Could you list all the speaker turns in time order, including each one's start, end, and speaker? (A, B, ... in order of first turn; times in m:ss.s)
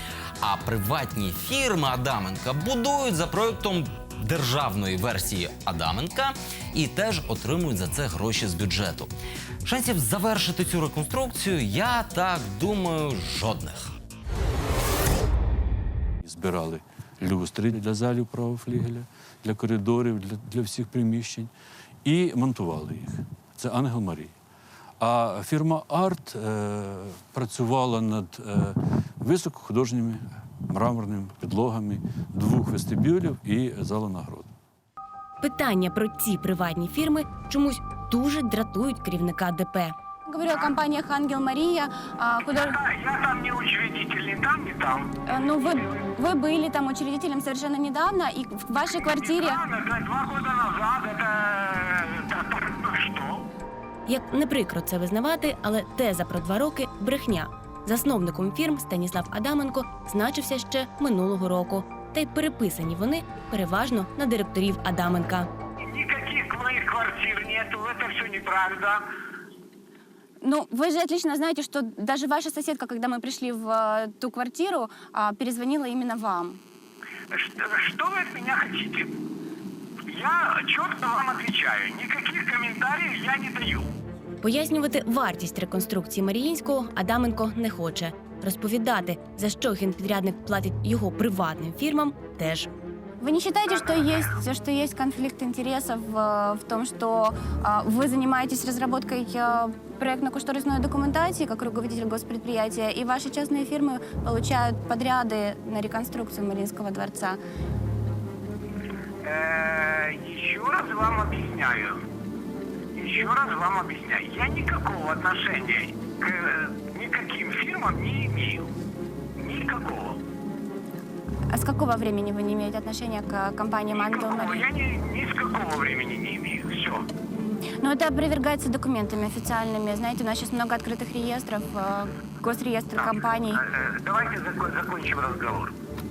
0:00.4-0:09.1 A
0:09.6-0:13.9 A
0:16.2-0:21.5 B
0:22.0-0:24.3 B
0:25.0-0:34.5 B
0:35.4-0:39.9 C
0:40.3-0:42.8 D
0:40.4-0:40.8 E
0:42.4-0:46.0 E
0:45.2-0:49.6 D
0:49.1-0:53.4 E
0:54.1-1:05.5 C
1:05.8-1:09.0 E
1:10.4-1:16.6 D
1:17.3-1:19.1 E
1:20.1-1:23.9 E
1:24.4-1:32.7 C
1:33.2-1:47.4 D
1:49.2-1:52.0 E
1:52.9-1:58.7 E
1:59.4-2:00.2 E
2:01.5-2:04.7 D
2:03.9-2:07.0 E
2:07.3-2:13.6 D
2:12.9-2:15.7 E